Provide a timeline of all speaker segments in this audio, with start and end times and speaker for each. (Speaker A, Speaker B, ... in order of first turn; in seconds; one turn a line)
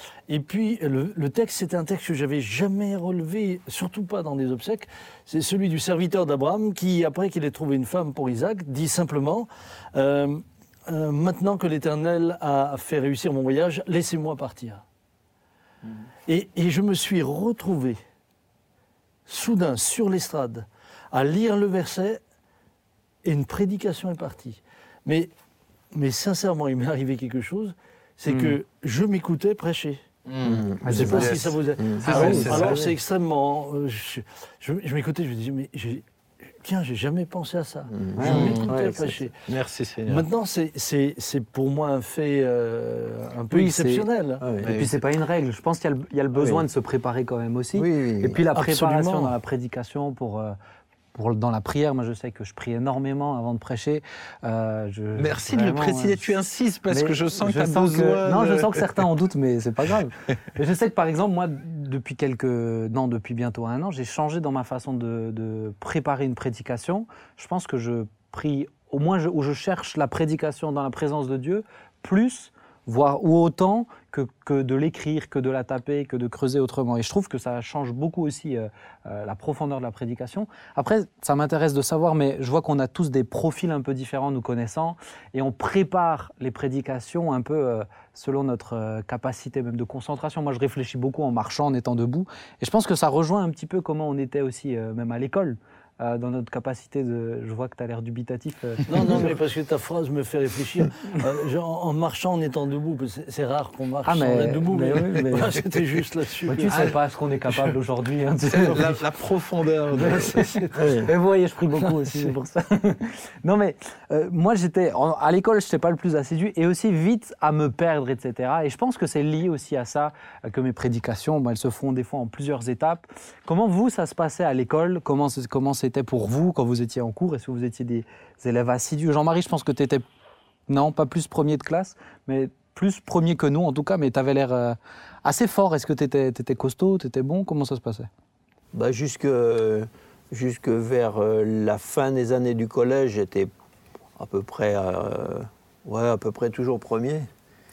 Speaker A: 0.3-14.8
Speaker A: 16.3-18.0
Speaker A: 19.3-22.2
Speaker A: 23.2-25.3
Speaker A: 25.9-30.1
Speaker B: 28.3-28.6
Speaker C: 30.3-32.8
Speaker D: 30.4-32.6
Speaker B: 30.8-31.3
Speaker A: 30.9-39.4
Speaker B: 32.0-32.9
Speaker D: 37.9-39.2
Speaker B: 38.2-38.6
Speaker C: 38.2-38.7
Speaker C: 39.5-40.2
Speaker A: 40.1-44.4
Speaker B: 43.5-44.1
Speaker D: 44.4-44.8
Speaker C: 44.6-44.9
Speaker B: 44.7-50.6
Speaker D: 46.4-46.6
Speaker D: 47.7-48.4
Speaker A: 48.5-49.4
Speaker B: 51.1-56.3
Speaker C: 55.2-58.9
Speaker B: 56.9-99.3
Speaker A: 98.9-106.9
Speaker B: 104.0-105.5
Speaker B: 106.5-109.1
Speaker C: 108.6-110.5
Speaker A: 109.9-111.0
Speaker B: 110.0-130.0
Speaker D: 110.8-111.1
Speaker B: 130.7-138.1
Speaker D: 138.7-143.5
Speaker D: 144.2-147.3